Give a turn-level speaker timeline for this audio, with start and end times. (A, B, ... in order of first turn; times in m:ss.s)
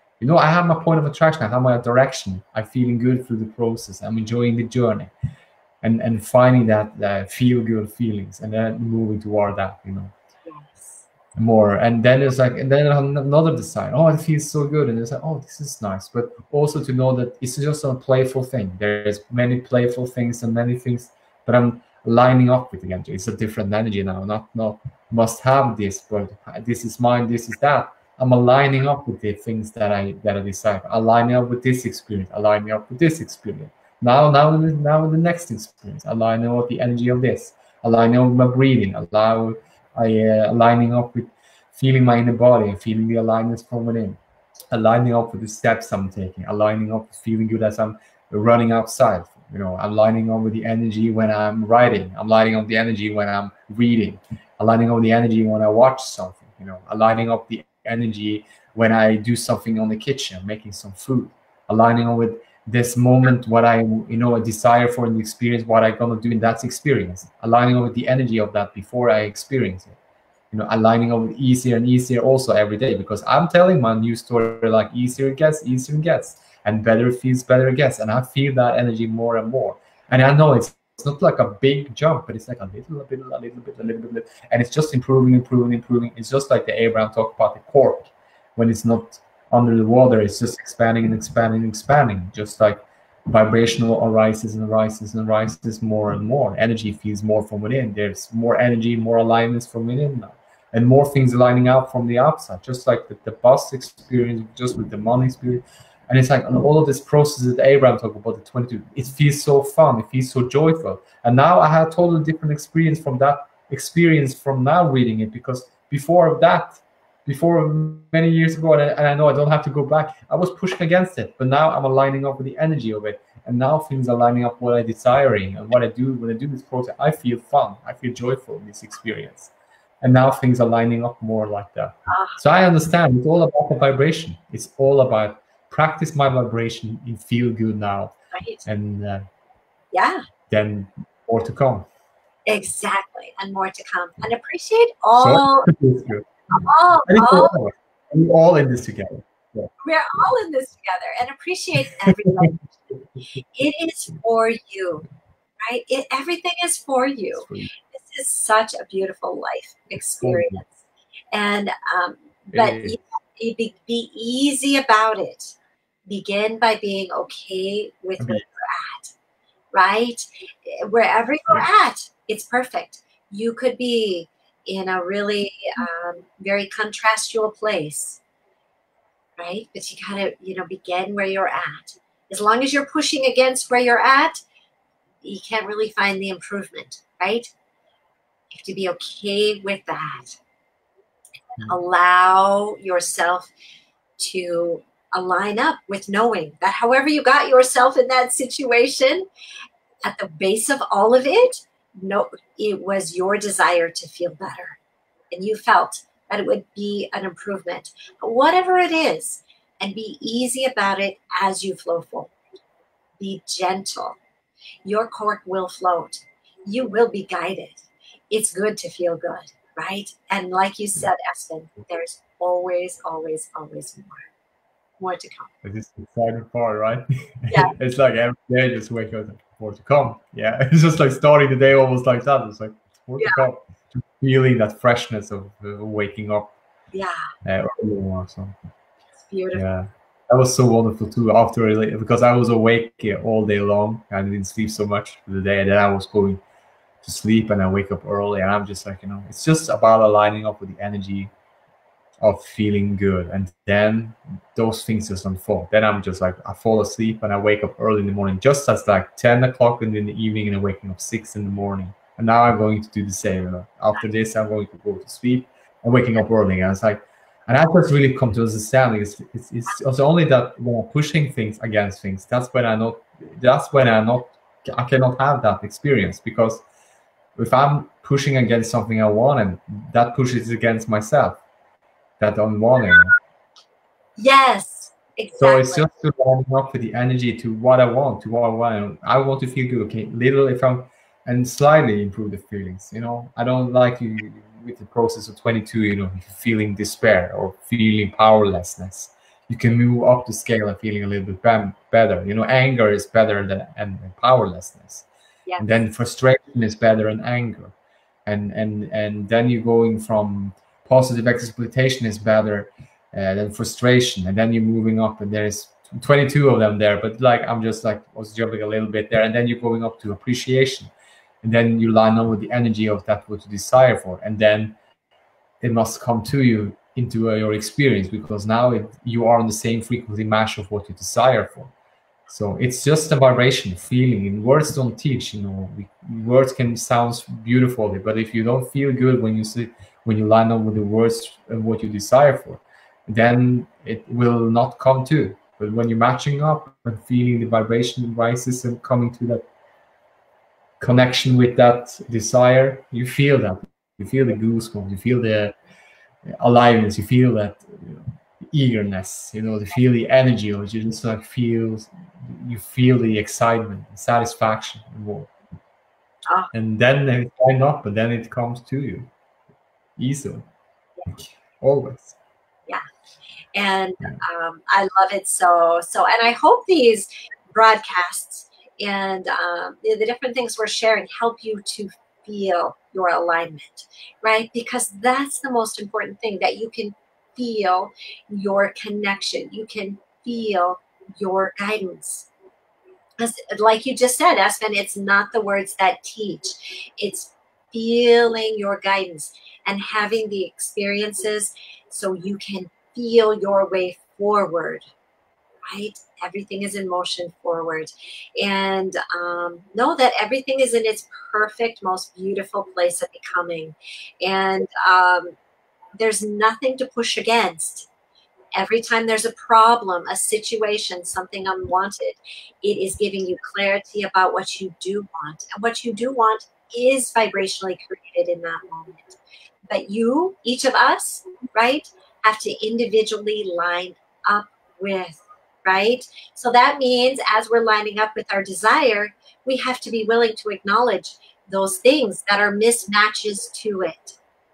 0:00.2-0:05.1 A
0:05.8-0:10.1 A
0:10.4-0:11.0 B
0:11.4-0:44.2 A
0:44.7-1:10.0 A
1:10.5-2:19.2 A
2:12.1-2:12.4 B
2:18.3-2:18.6 B
2:19.9-2:20.2 B
2:20.5-2:21.9 A
2:22.4-2:25.7 B
2:25.2-2:29.7 A
2:26.5-2:27.6 B
2:29.8-2:32.9 B
2:31.9-2:32.3 A
2:33.6-2:35.0 B
2:35.6-2:49.1 B
2:37.4-2:37.7 A
2:40.2-2:40.6 A
2:42.5-2:43.0 A
2:48.2-2:48.4 A
2:49.7-2:58.2 B
2:59.4-3:04.4 B
3:05.2-3:07.5 B
3:08.5-3:10.4 B
3:11.6-3:13.5 B
3:14.2-3:19.3 B
3:20.0-3:24.8 B
3:25.3-3:32.3 B
3:33.2-3:34.2 B
3:34.8-3:44.3 B
3:45.0-3:45.5 B
3:45.6-3:56.6 A
3:47.5-3:47.7 B
3:56.9-3:57.3 B
3:57.4-3:58.6 A
3:59.2-3:59.6 B
3:59.5-4:06.4 A
4:07.0-4:11.3 A
4:12.2-4:36.6 A
4:37.4-4:41.4 A
4:42.2-4:43.2 A
4:44.2-4:45.9 B
4:45.4-5:05.1 A
5:05.6-5:07.7 A
5:08.3-5:20.9 A
5:21.4-5:24.8 A
5:25.6-5:31.7 A
5:32.3-5:49.4 A
5:50.8-5:55.5 A
5:56.3-6:05.3 A
6:06.5-6:09.1 A
6:10.0-6:10.4 A
6:11.1-6:12.2 A
6:13.5-6:32.3 B
6:33.2-6:44.8 B
6:45.7-6:55.3 B
6:56.0-6:57.9 B
6:58.5-7:09.2 B
7:09.7-7:24.2 B